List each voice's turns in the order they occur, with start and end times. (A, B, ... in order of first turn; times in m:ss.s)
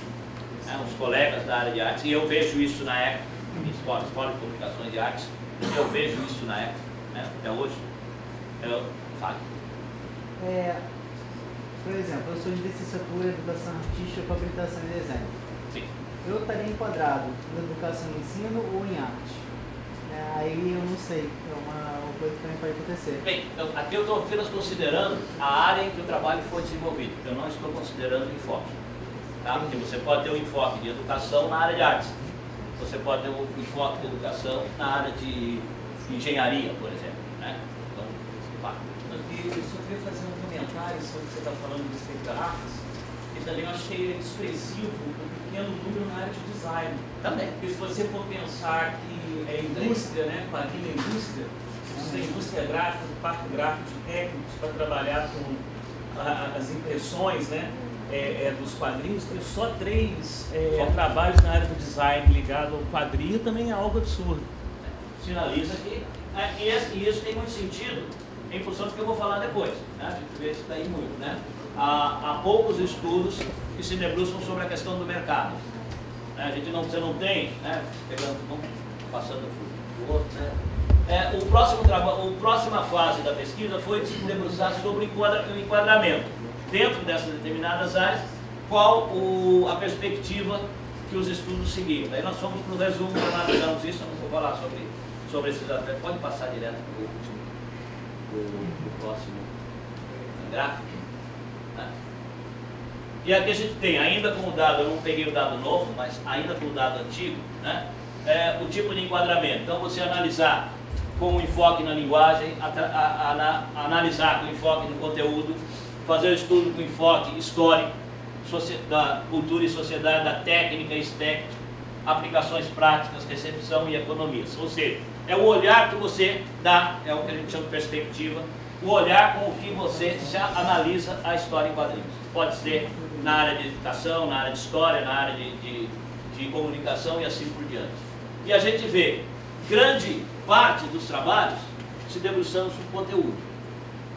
0:00.6-0:07.8 A
0:08.6-0:09.4 A
0:10.4-0:10.8 B
0:11.8-0:15.3 B
0:16.2-0:19.4 B
0:20.1-0:23.2 B
0:23.2-0:28.7 A
0:29.4-0:32.1 A
0:29.5-0:29.8 B
0:32.8-0:39.2 A
0:39.1-0:42.8 C
0:43.3-0:55.6 C
0:56.1-1:04.4 C
1:05.2-1:15.6 A
1:16.4-1:20.6 A
1:21.1-1:37.5 A
1:38.3-1:39.5 A
1:40.4-1:41.0 A
1:43.2-1:57.9 A
1:58.4-2:01.5 A
2:02.0-2:23.4 A